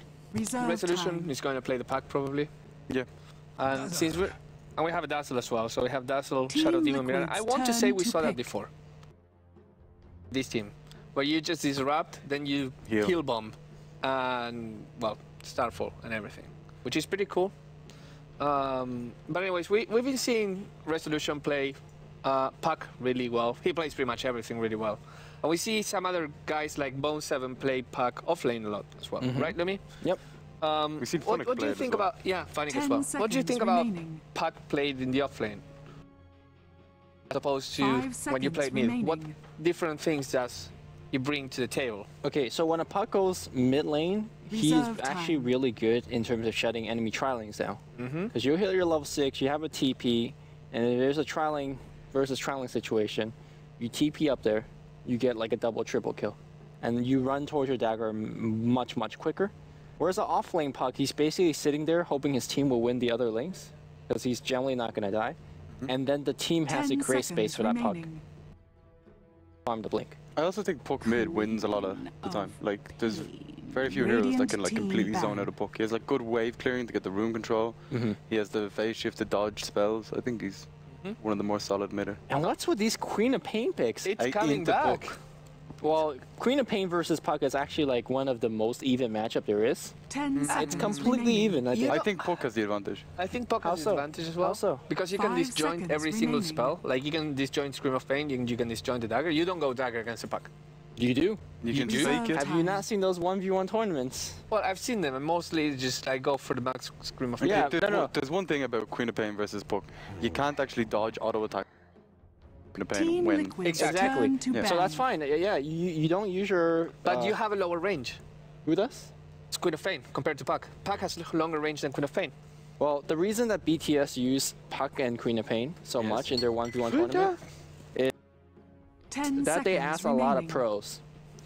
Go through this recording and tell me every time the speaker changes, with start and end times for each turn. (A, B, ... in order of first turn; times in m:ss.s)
0:00.3-0:01.3 A
0:00.6-0:02.5 B
0:03.6-0:08.7 B
0:06.5-0:08.4 A
0:10.3-0:17.5 B
0:12.9-0:13.1 C
0:18.4-0:29.8 B
0:29.2-0:30.2 D
0:30.6-0:35.6 B
0:31.0-0:32.1 C
0:32.7-0:34.2 A
0:37.3-0:42.1 B
0:37.8-0:39.4 A
0:42.2-1:08.0 D
0:44.5-0:45.5 A
0:48.0-0:48.3 B
1:06.7-1:08.2 A
1:09.6-1:10.2 D
1:10.4-1:20.7 C
1:13.4-1:15.5 A
1:17.9-1:18.2 D
1:21.2-1:22.2 C
1:22.3-1:24.1 D
1:24.0-1:25.2 B
1:24.2-1:25.1 C
1:25.8-1:30.0 D
1:30.1-1:31.7 A
1:30.4-1:30.9 C
1:30.5-1:32.0 D
1:30.6-1:31.1 B
1:31.7-1:32.2 B
1:31.8-1:33.0 C
1:33.2-1:40.5 B
1:33.6-1:34.8 D
1:35.2-1:36.8 A
1:41.0-1:44.4 D
1:41.6-1:42.4 C
1:41.7-1:42.8 A
1:44.5-1:47.7 B
1:47.4-1:51.6 C
1:47.4-1:48.1 D
1:52.7-1:53.6 C
1:52.9-1:55.0 A
1:53.6-1:57.4 D
1:53.7-1:54.1 B
1:57.0-1:58.2 B
1:58.6-1:59.1 D
1:59.5-2:02.3 B
2:02.8-2:07.3 D
2:07.0-2:07.3 C
2:09.1-2:10.6 A
2:09.4-2:11.0 D